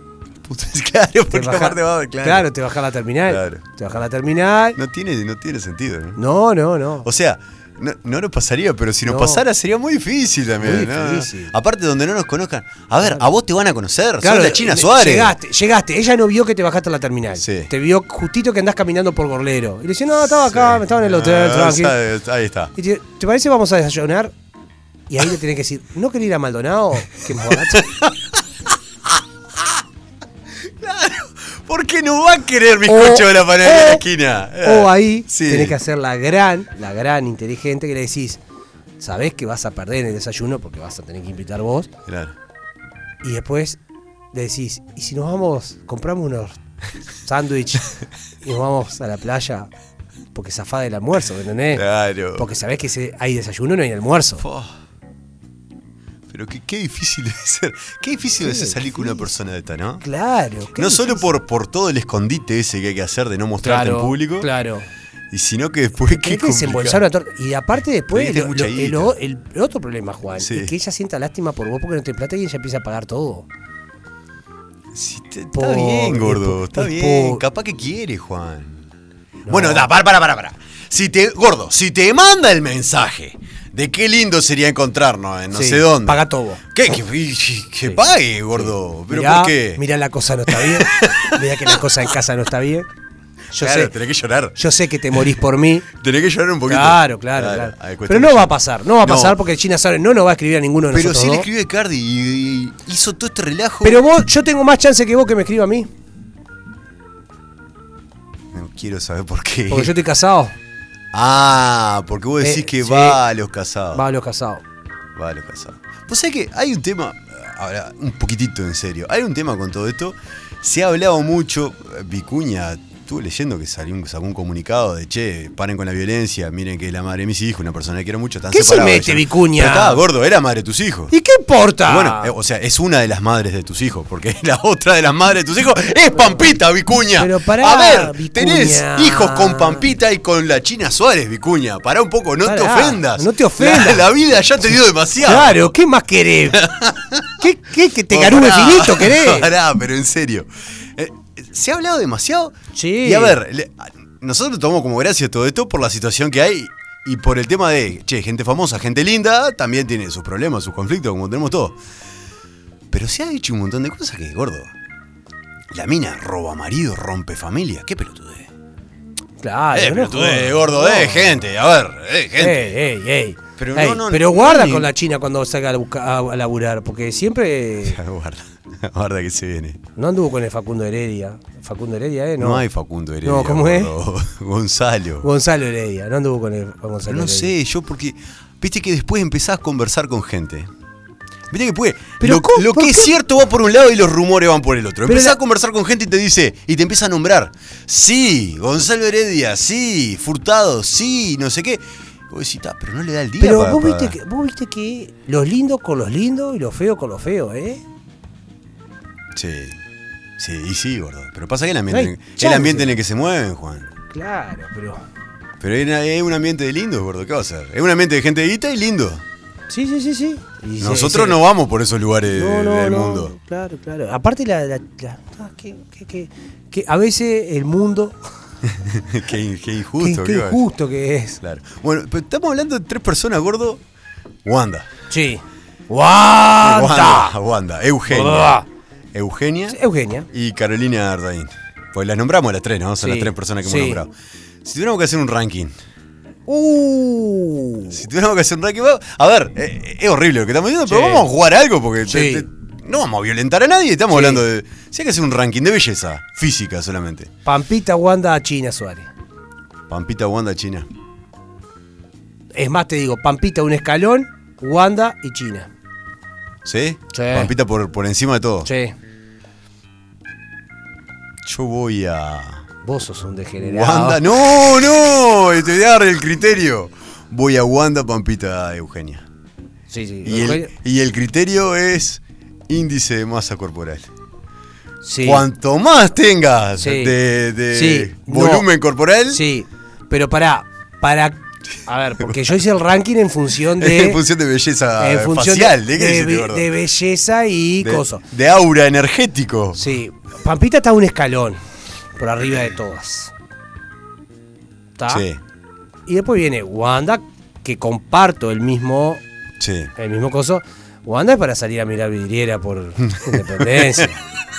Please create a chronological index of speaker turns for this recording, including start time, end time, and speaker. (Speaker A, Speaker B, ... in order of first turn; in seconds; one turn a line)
Speaker A: 0.4-2.5
Speaker B: 1.3-4.8
Speaker A: 3.3-3.6
Speaker A: 4.8-6.2
Speaker B: 6.2-7.1
Speaker A: 7.0-15.3
Speaker B: 9.0-9.4
Speaker B: 10.6-11.5
Speaker B: 14.2-21.9
Speaker A: 17.3-17.7
Speaker A: 20.4-22.7
Speaker B: 22.8-24.3
Speaker B: 25.1-27.9
Speaker A: 27.5-28.4
Speaker A: 30.6-35.8
Speaker B: 32.9-34.0
Speaker B: 34.6-38.4
Speaker B: 39.0-41.9
Speaker A: 42.1-42.3
Speaker B: 43.2-43.8
Speaker B: 44.3-46.6
Speaker B: 47.2-49.7
Speaker B: 50.3-51.8
Speaker A: 51.7-52.5
Speaker B: 52.3-54.4
Speaker A: 54.4-54.7
Speaker A: 56.3-60.0
Speaker B: 58.4-59.3
Speaker B: 60.0-61.3
Speaker A: 60.7-64.5
Speaker B: 63.6-64.9
Speaker A: 65.3-67.0
Speaker B: 66.1-73.5
Speaker A: 68.1-69.1
Speaker A: 70.4-70.7
Speaker A: 74.9-78.9
Speaker B: 75.5-77.4
Speaker B: 79.5-79.9
Speaker A: 79.5-89.8
Speaker B: 85.5-86.6
Speaker B: 87.8-92.9
Speaker A: 90.5-91.8
Speaker B: 93.5-93.9
Speaker A: 93.6-94.6
Speaker B: 94.5-95.8
Speaker A: 95.8-99.4
Speaker B: 96.7-101.5
Speaker A: 100.9-104.0
Speaker B: 103.8-105.9
Speaker A: 108.5-109.9
Speaker B: 109.7-110.5
Speaker A: 111.1-114.0
Speaker B: 112.4-113.2
Speaker B: 113.9-114.6
Speaker A: 115.1-131.1
Speaker B: 128.5-130.0
Speaker B: 131.1-132.3
Speaker A: 131.8-145.7
Speaker B: 137.2-139.9
Speaker B: 142.4-144.1
Speaker B: 144.7-146.7
Speaker A: 146.5-147.4
Speaker B: 147.4-149.5
Speaker A: 148.1-161.8
Speaker B: 152.7-153.4
Speaker A: 162.9-164.7
Speaker A: 165.7-168.5
Speaker B: 169.4-171.4
Speaker A: 169.7-172.8
Speaker B: 172.4-178.0
Speaker A: 173.6-174.9
Speaker A: 177.8-179.8
Speaker B: 180.0-182.6
Speaker A: 182.4-185.3
Speaker B: 183.2-183.9
Speaker B: 185.2-187.5
Speaker A: 187.1-190.7
Speaker A: 191.5-204.2
Speaker B: 192.2-193.1
Speaker B: 195.1-195.4
Speaker B: 203.4-207.8
Speaker A: 209.3-209.8
Speaker A: 210.4-213.9
Speaker B: 211.9-212.9
Speaker B: 214.1-215.0
Speaker A: 215.6-219.2
Speaker B: 219.7-221.4
Speaker A: 220.8-223.3
Speaker B: 222.3-228.2
Speaker A: 228.6-230.6
Speaker B: 230.0-231.4
Speaker A: 231.4-233.8
Speaker A: 234.4-234.9
Speaker B: 235.1-237.3
Speaker A: 236.6-238.5
Speaker B: 238.1-238.7
Speaker A: 239.1-239.8
Speaker B: 239.7-240.3
Speaker A: 240.3-244.1
Speaker B: 243.0-244.0
Speaker A: 244.6-245.8
Speaker B: 246.5-248.0
Speaker A: 247.9-257.3
Speaker B: 250.8-251.3
Speaker B: 252.1-252.4
Speaker B: 254.1-254.4
Speaker B: 257.4-259.1
Speaker A: 259.9-260.9
Speaker B: 262.5-265.7
Speaker A: 266.6-268.7
Speaker B: 267.1-267.5
Speaker B: 268.6-268.9
Speaker A: 271.4-272.6
Speaker B: 272.8-274.2
Speaker A: 273.6-279.2
Speaker B: 279.9-280.7
Speaker A: 280.2-284.1
Speaker B: 285.0-285.4
Speaker A: 285.2-289.4
Speaker B: 286.8-287.1
Speaker B: 287.7-288.7
Speaker B: 289.3-294.2
Speaker A: 293.8-296.7
Speaker B: 295.0-298.2
Speaker A: 297.8-299.8
Speaker B: 299.7-301.6
Speaker B: 302.2-303.3
Speaker B: 305.0-305.2
Speaker A: 305.1-305.4
Speaker B: 306.1-309.2
Speaker A: 309.6-309.9
Speaker B: 309.9-314.2
Speaker A: 313.0-314.1